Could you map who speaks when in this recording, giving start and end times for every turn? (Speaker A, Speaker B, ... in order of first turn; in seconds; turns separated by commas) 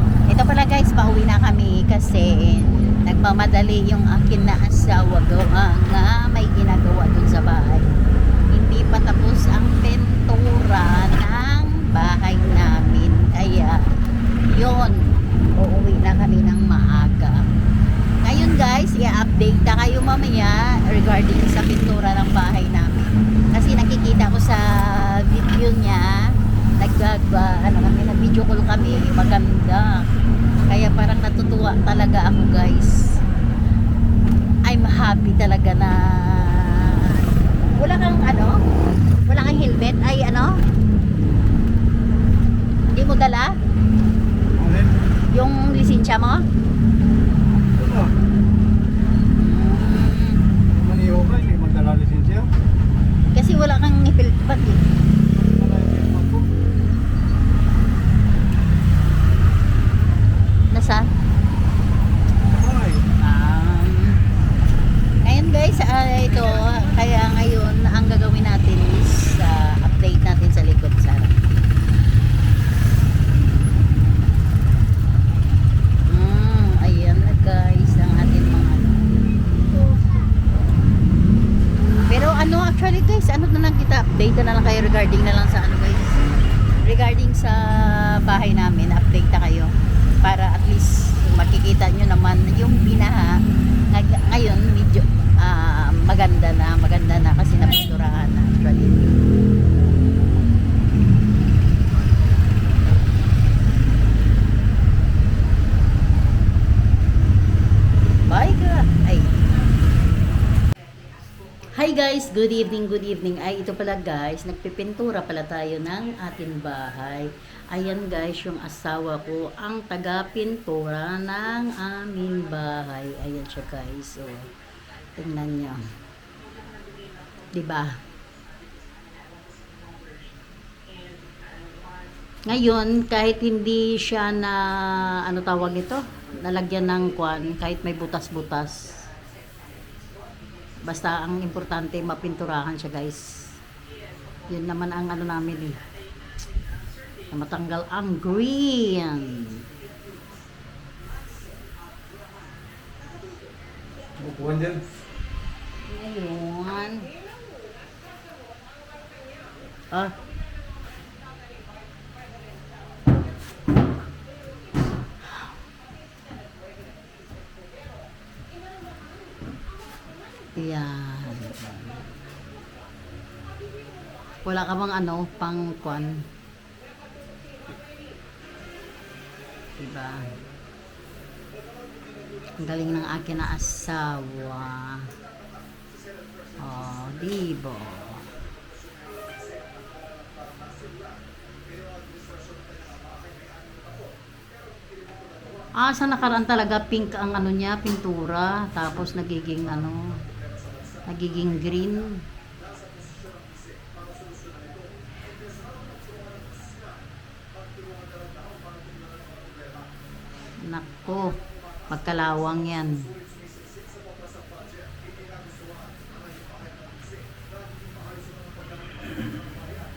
Speaker A: 0.3-7.9, Speaker A: 8.5-13.9, Speaker A: 14.5-17.5, Speaker A: 18.2-26.2, Speaker A: 26.8-30.1, Speaker A: 30.6-33.1, Speaker A: 34.7-38.6, Speaker A: 39.3-40.6, Speaker A: 42.9-43.6, Speaker B: 44.6-44.9, Speaker A: 45.3-46.4, Speaker B: 47.8-48.1, Speaker A: 49.3-50.4, Speaker B: 50.8-52.5, Speaker A: 53.3-54.9, Speaker B: 55.4-56.5, Speaker A: 60.7-61.1, Speaker B: 62.5-63.0, Speaker A: 63.2-64.2, Speaker A: 65.2-71.4, Speaker A: 76.1-79.2, Speaker A: 82.0-86.3, Speaker A: 86.8-99.2, Speaker A: 108.3-109.4, Speaker A: 111.7-124.5, Speaker A: 125.2-125.8, Speaker A: 127.5-128.0, Speaker A: 132.5-139.0, Speaker A: 140.8-143.2, Speaker A: 144.5-145.8, Speaker A: 147.3-149.7, Speaker B: 154.2-154.9, Speaker A: 155.9-157.1, Speaker A: 159.9-160.2, Speaker A: 170.6-172.1, Speaker A: 174.4-176.2, Speaker A: 179.8-180.3, Speaker A: 182.6-185.1, Speaker A: 186.6-188.3, Speaker A: 195.8-200.2, Speaker A: 201.1-202.2, Speaker A: 210.6-213.1